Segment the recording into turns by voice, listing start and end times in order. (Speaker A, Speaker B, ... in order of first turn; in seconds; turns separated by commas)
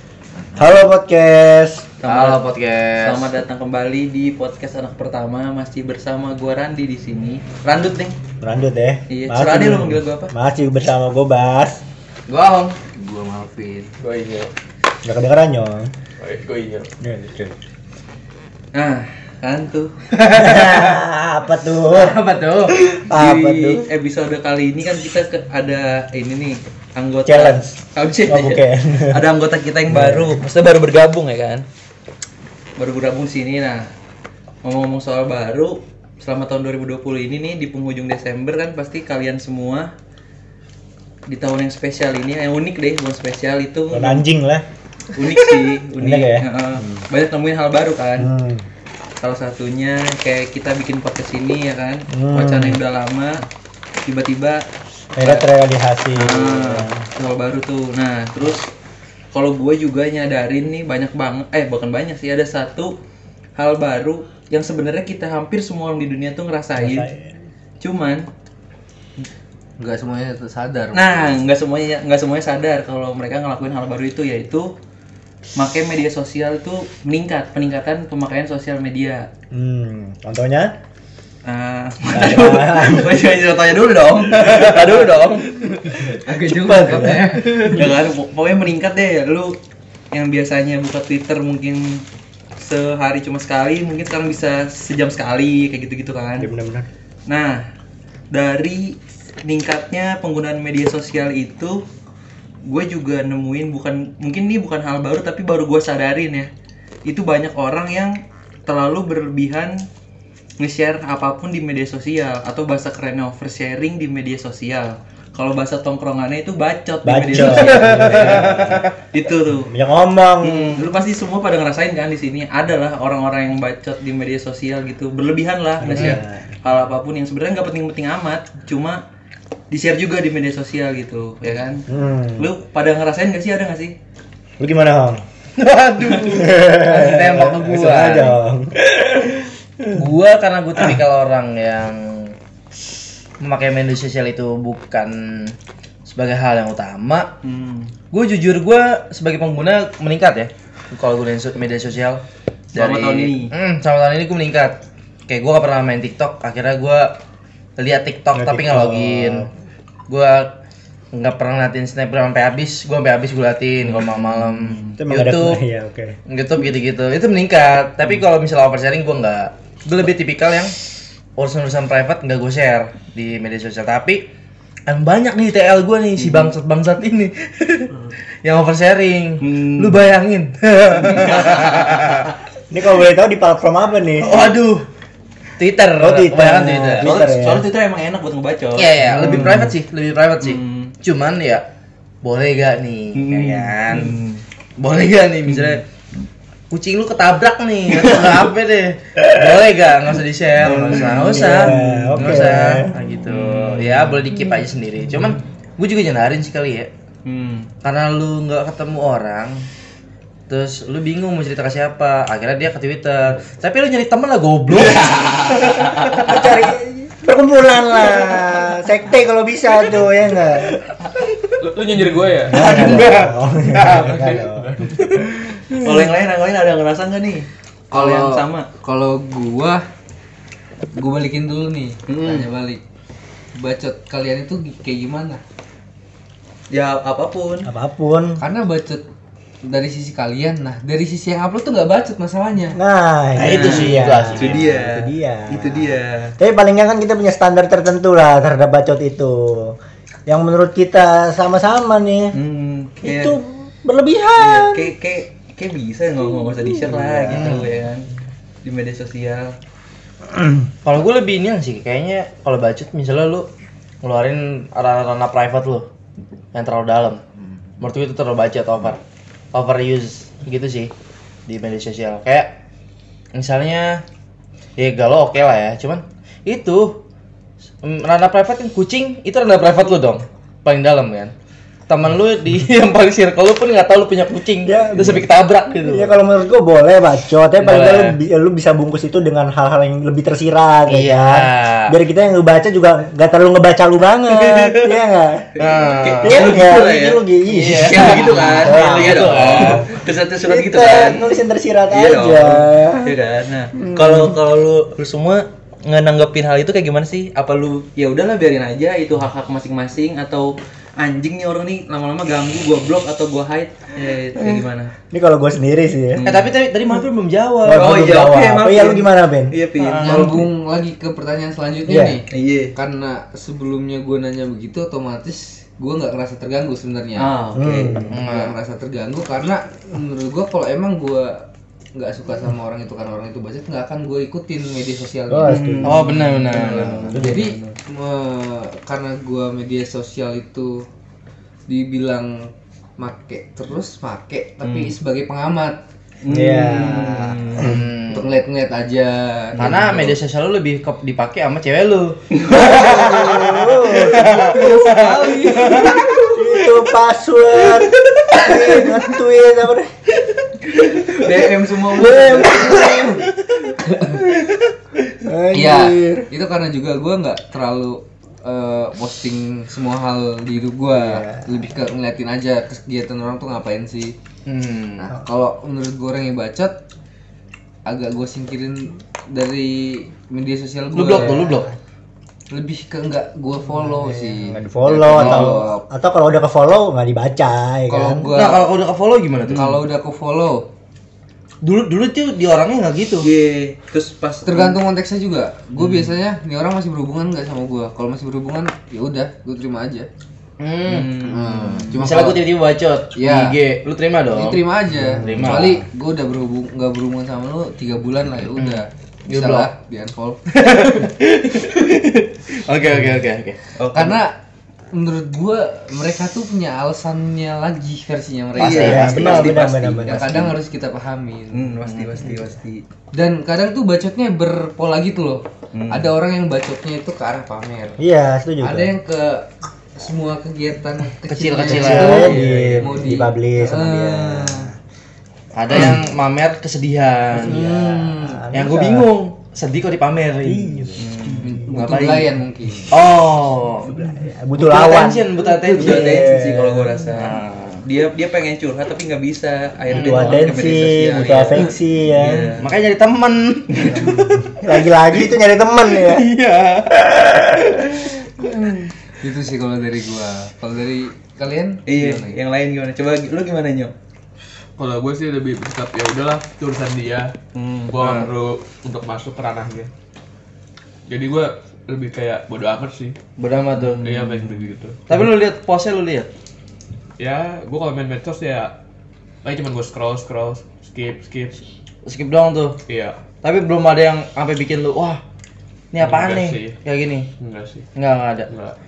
Speaker A: 0.6-1.9, Speaker B: 2.0-2.4, Speaker C: 2.1-3.3, Speaker B: 3.0-8.2, Speaker A: 8.4-11.8, Speaker B: 9.1-10.3, Speaker B: 12.3-13.9, Speaker D: 13.2-13.8, Speaker E: 14.0-14.5, Speaker A: 15.1-15.9, Speaker E: 16.2-16.9, Speaker A: 17.0-17.6, Speaker B: 18.7-19.9, Speaker A: 20.3-22.2, Speaker B: 21.9-31.6, Speaker A: 22.9-23.9, Speaker A: 27.3-27.7, Speaker A: 28.3-29.2, Speaker A: 29.9-30.4, Speaker B: 32.8-33.9, Speaker B: 34.6-39.9, Speaker B: 41.3-44.2, Speaker A: 43.9-44.6, Speaker B: 45.1-48.3, Speaker A: 46.0-47.0, Speaker A: 48.2-48.7, Speaker B: 49.2-53.5, Speaker A: 52.1-52.8, Speaker B: 54.0-54.7, Speaker A: 55.2-57.0, Speaker B: 55.2-55.5, Speaker B: 56.1-58.7, Speaker B: 59.3-62.9, Speaker B: 63.6-67.1, Speaker A: 66.8-67.3, Speaker B: 67.8-68.3, Speaker D: 69.8-71.3, Speaker B: 70.9-74.7, Speaker B: 75.6-79.3, Speaker A: 79.5-80.8, Speaker B: 81.4-85.5, Speaker A: 82.1-83.2, Speaker C: 84.5-85.1, Speaker E: 85.6-86.1, Speaker D: 86.2-87.8, Speaker A: 86.5-87.6, Speaker B: 86.8-89.6, Speaker B: 90.1-92.0, Speaker B: 92.6-96.5, Speaker A: 96.4-96.9, Speaker B: 97.3-97.6, Speaker B: 98.3-101.8, Speaker B: 102.7-106.5, Speaker B: 107.1-109.8, Speaker B: 110.6-119.7, Speaker A: 117.0-118.9, Speaker C: 117.4-118.8, Speaker A: 119.7-120.8, Speaker B: 120.4-129.0, Speaker A: 125.8-126.5, Speaker B: 129.7-131.8, Speaker A: 131.9-132.5, Speaker B: 132.4-133.9, Speaker A: 134.6-135.2, Speaker C: 135.6-138.4, Speaker B: 136.0-136.3, Speaker A: 136.3-140.0, Speaker C: 139.9-142.3, Speaker C: 143.4-145.6, Speaker C: 146.1-147.3, Speaker B: 147.4-147.9, Speaker C: 148.1-152.2, Speaker B: 152.7-153.5, Speaker C: 152.8-154.8, Speaker C: 155.3-157.2, Speaker C: 157.8-159.5, Speaker A: 158.3-159.5, Speaker C: 160.1-160.5, Speaker C: 161.1-165.6, Speaker B: 163.9-164.9, Speaker A: 165.0-166.2, Speaker C: 166.3-170.8, Speaker C: 171.4-174.2, Speaker C: 174.9-177.9, Speaker B: 176.2-176.5, Speaker C: 178.4-182.3, Speaker B: 179.4-180.0, Speaker B: 181.0-181.9, Speaker A: 182.7-184.4, Speaker C: 184.2-184.8, Speaker C: 185.6-187.3, Speaker A: 186.0-187.7, Speaker B: 186.9-189.7, Speaker C: 188.8-191.6, Speaker B: 190.4-190.9, Speaker C: 192.2-194.2, Speaker B: 193.2-194.4, Speaker C: 194.8-195.8, Speaker C: 196.7-206.9, Speaker B: 197.9-198.4, Speaker B: 200.6-202.4, Speaker A: 200.7-202.9, Speaker B: 203.3-204.2, Speaker B: 207.2-207.7, Speaker C: 207.8-209.7, Speaker C: 210.5-216.5, Speaker A: 216.1-220.8, Speaker E: 221.6-225.4, Speaker A: 222.4-225.9, Speaker C: 222.7-223.0, Speaker B: 225.7-228.7, Speaker D: 227.9-229.8, Speaker D: 230.9-232.8, Speaker B: 232.1-232.5, Speaker D: 233.6-235.4, Speaker B: 236.7-237.7, Speaker A: 237.6-238.4, Speaker D: 238.4-239.1, Speaker D: 239.6-242.8, Speaker A: 242.8-252.4, Speaker C: 243.4-244.8, Speaker B: 243.4-246.3, Speaker B: 252.3-253.4, Speaker A: 253.0-254.9, Speaker B: 254.4-258.1, Speaker A: 256.7-257.7, Speaker C: 257.3-257.7, Speaker B: 258.6-259.6, Speaker C: 260.9-263.5, Speaker C: 264.0-265.9, Speaker C: 266.5-267.2, Speaker C: 267.8-269.0, Speaker C: 269.5-270.9, Speaker C: 271.5-272.5, Speaker C: 273.3-274.0, Speaker C: 274.8-277.0, Speaker C: 277.8-281.3, Speaker C: 281.9-286.2, Speaker A: 284.6-285.3, Speaker A: 285.8-295.5, Speaker C: 287.6-288.2, Speaker C: 290.9-292.0, Speaker C: 294.3-294.9, Speaker B: 295.6-301.3, Speaker C: 295.6-296.7, Speaker A: 296.2-303.1, Speaker C: 297.5-299.9, Speaker B: 301.9-314.9, Speaker A: 303.8-304.4, Speaker A: 315.1-316.3, Speaker B: 316.1-317.0, Speaker C: 316.2-318.1, Speaker A: 317.6-319.6, Speaker B: 317.7-320.5, Speaker C: 319.8-320.4, Speaker D: 320.0-327.4, Speaker A: 321.9-322.2, Speaker B: 322.3-322.7, Speaker B: 327.2-328.2, Speaker A: 327.6-328.1, Speaker C: 328.1-328.6, Speaker D: 328.1-340.9, Speaker A: 335.3-336.2, Speaker B: 335.4-337.8, Speaker C: 335.8-337.2, Speaker D: 341.7-345.8, Speaker B: 344.6-344.9, Speaker B: 346.2-347.8, Speaker A: 346.3-347.9, Speaker C: 347.6-348.4, Speaker D: 348.1-350.1, Speaker B: 349.6-350.1, Speaker C: 349.6-356.0, Speaker B: 352.3-352.8, Speaker A: 352.5-354.5, Speaker D: 354.6-356.0, Speaker B: 355.8-356.1, Speaker A: 356.3-359.9, Speaker B: 357.7-359.0, Speaker B: 360.7-363.2, Speaker A: 362.0-363.2, Speaker D: 362.2-363.0, Speaker A: 365.2-366.3, Speaker D: 365.5-374.1, Speaker A: 370.9-371.5, Speaker C: 374.5-375.1, Speaker D: 375.0-376.8, Speaker D: 377.9-381.6, Speaker C: 380.9-381.7, Speaker A: 381.4-381.7, Speaker D: 382.5-385.9, Speaker A: 383.9-388.3, Speaker C: 385.0-385.6, Speaker D: 387.9-388.7, Speaker C: 388.3-389.8, Speaker D: 389.5-390.7, Speaker C: 391.6-393.3, Speaker B: 393.2-394.8, Speaker D: 394.4-400.1, Speaker C: 400.6-401.2, Speaker B: 400.9-402.0, Speaker D: 401.2-402.5, Speaker C: 401.8-405.8, Speaker D: 403.1-403.6, Speaker D: 404.3-410.8, Speaker A: 405.1-405.7, Speaker C: 408.6-409.7, Speaker C: 410.5-413.6, Speaker B: 413.8-414.2, Speaker D: 413.9-414.4, Speaker D: 414.9-421.7, Speaker C: 418.6-419.7, Speaker B: 418.6-420.4, Speaker A: 418.6-420.5, Speaker B: 421.5-422.8, Speaker C: 421.9-422.2, Speaker D: 423.1-428.0, Speaker B: 425.7-426.1, Speaker A: 428.0-428.9, Speaker D: 428.6-434.7, Speaker C: 431.3-432.8, Speaker A: 431.7-434.7, Speaker B: 432.0-432.8, Speaker C: 435.6-437.7, Speaker A: 437.3-439.1, Speaker D: 437.4-438.4, Speaker C: 438.5-442.3, Speaker A: 440.4-441.6, Speaker B: 441.0-441.6, Speaker D: 441.7-443.0, Speaker C: 442.9-446.3, Speaker A: 443.9-447.0, Speaker D: 445.4-446.1, Speaker B: 445.7-452.7, Speaker C: 447.1-447.8, Speaker C: 449.9-450.5, Speaker A: 449.9-452.5, Speaker C: 452.6-455.2, Speaker A: 453.8-456.3, Speaker C: 456.1-458.9, Speaker D: 459.2-462.4, Speaker B: 461.9-463.9, Speaker E: 464.8-467.4, Speaker B: 467.5-468.0, Speaker E: 467.9-469.9, Speaker C: 468.0-468.3, Speaker E: 471.1-473.2, Speaker C: 473.4-474.5, Speaker B: 473.8-474.1, Speaker E: 473.9-475.0, Speaker C: 475.1-476.3, Speaker E: 477.2-478.7, Speaker E: 479.4-481.6, Speaker C: 482.1-482.8, Speaker E: 482.9-483.2, Speaker C: 483.4-485.2, Speaker C: 485.9-487.3, Speaker E: 486.0-486.8, Speaker E: 487.4-487.9, Speaker C: 487.9-488.5, Speaker E: 488.5-488.8